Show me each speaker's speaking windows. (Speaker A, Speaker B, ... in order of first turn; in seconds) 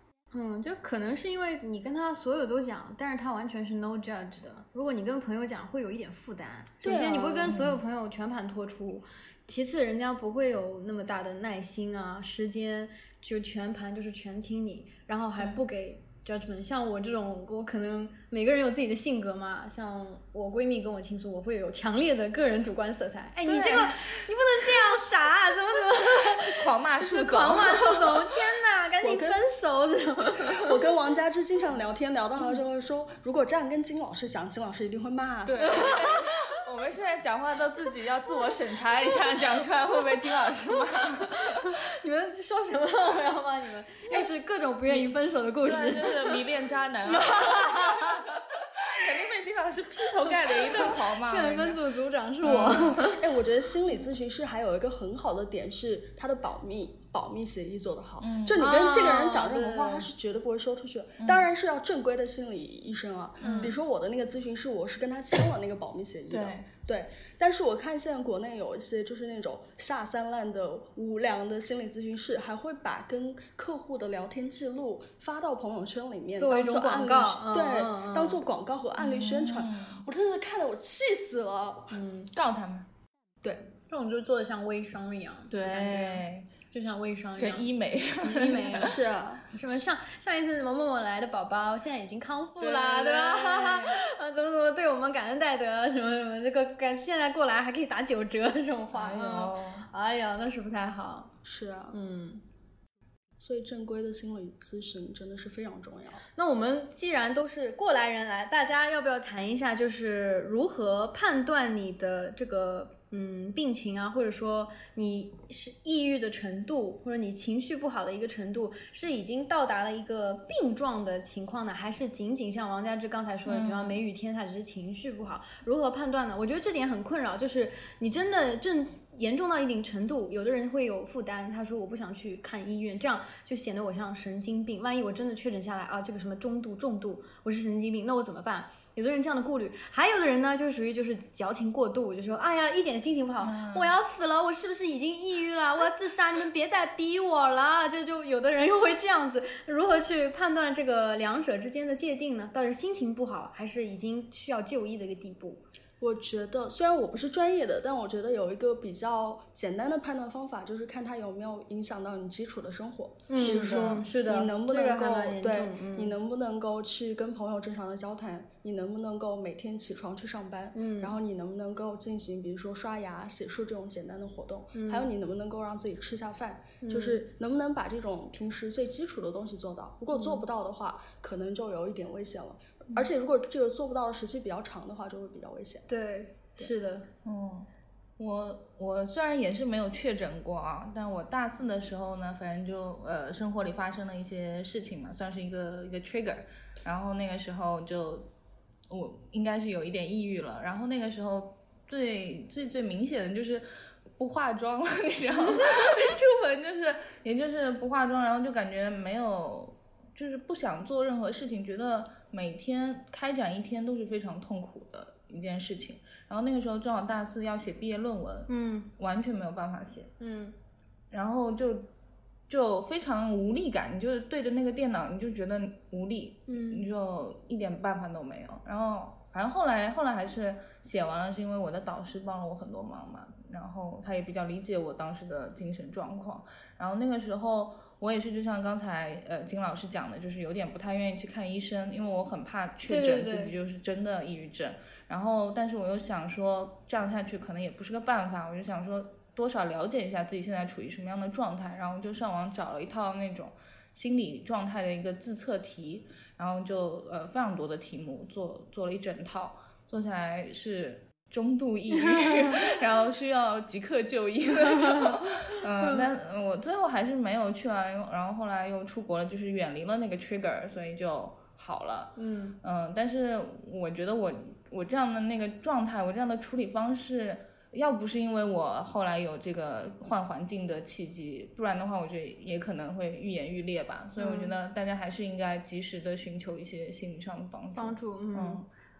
Speaker A: 0.3-30.8, 35.6-36.1, 41.3-46.4, 47.1-48.4, 50.3-53.2, 58.5-60.1, 63.4-63.8, 76.4-78.4, 81.9-82.3, 83.9-87.7, 88.2-89.0, 89.5-101.3, 101.9-102.4, 106.4-155.6, 163.3-166.1, 170.8-171.2, 174.7-175.1, 176.8-177.2, 180.2-180.4, 185.9-187.1, 218.5-218.9, 220.2-220.6, 226.5-226.9, 242.9-243.6, 262.2-262.5, 264.7-265.2, 272.2-272.6, 284.2-284.5, 287.8-288.6
Speaker B: 6.8-7.5, 29.0-29.4, 30.5-36.1, 53.0-82.0, 83.4-83.7, 88.8-89.5, 101.4-102.0, 103.4-106.2, 156.0-185.9
Speaker C: 7.5-7.8, 15.4-15.6, 23.5-24.0, 26.2-28.3, 35.5-41.8, 44.9-51.8, 52.4-53.0, 58.2-58.7, 61.2-61.5, 63.4-63.8, 66.3-66.7, 79.0-80.0, 82.3-82.9, 85.5-86.5, 87.4-89.0, 92.6-94.0, 98.9-99.9, 123.5-124.0, 143.4-144.0, 163.4-164.1, 187.2-198.3, 198.9-203.7, 204.2-220.1, 221.1-221.9, 222.5-288.7